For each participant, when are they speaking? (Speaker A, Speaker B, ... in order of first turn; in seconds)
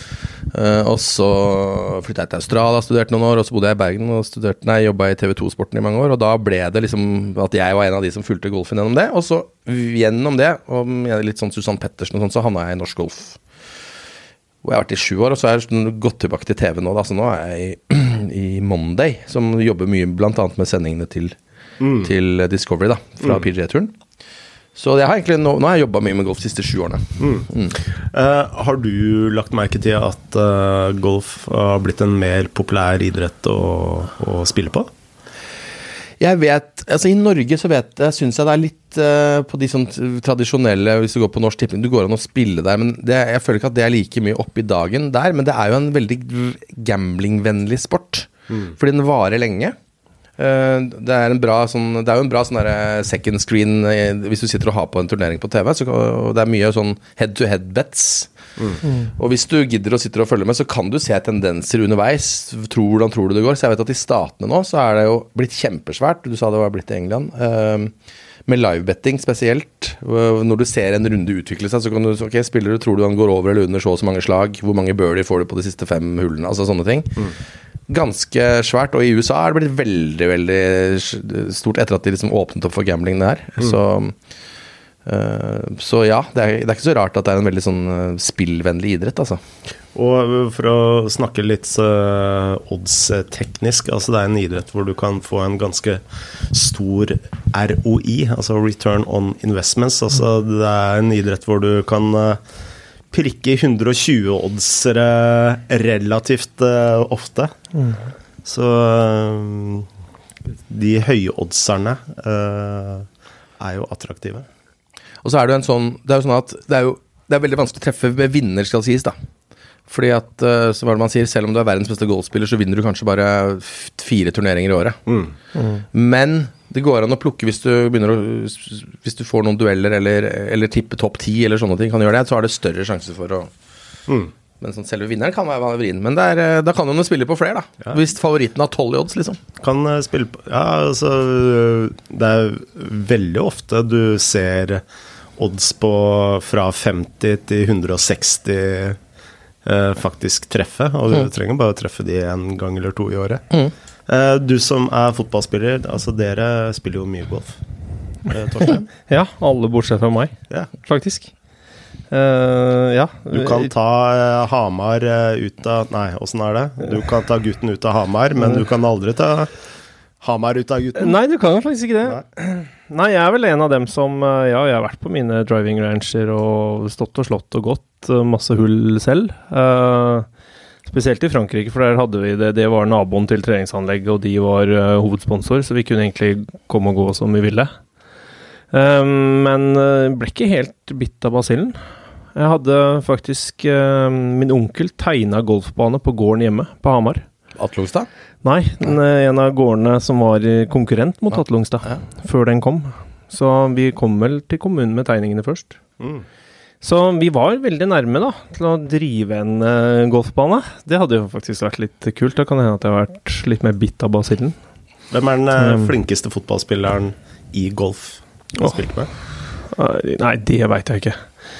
Speaker A: 0.5-13.4, 14.6-21.4, 22.0-23.9, 24.7-27.8, 36.2-49.8, 50.4-58.3, 59.0-67.9, 68.5-77.3, 77.9-84.2, 85.0-89.4, 115.2-119.1, 119.9-125.0, 125.9-133.5, 134.6-139.4, 197.6-198.1
Speaker B: 21.8-22.1, 27.2-34.9, 89.9-102.4, 103.1-107.5, 108.4-109.9, 110.7-113.1, 113.6-114.5, 125.1-125.3, 134.1-134.3, 139.6-144.8, 145.4-149.0, 149.6-153.4, 154.1-157.6, 158.2-158.9, 163.3-169.5, 170.2-171.2, 206.0-206.2, 215.1-219.1
Speaker C: 125.5-125.8, 159.1-161.3, 162.1-163.7, 171.0-180.3, 180.8-187.7, 188.7-191.8, 192.3-197.2, 198.4-205.8, 206.8-214.6, 215.6-215.9, 219.6-221.2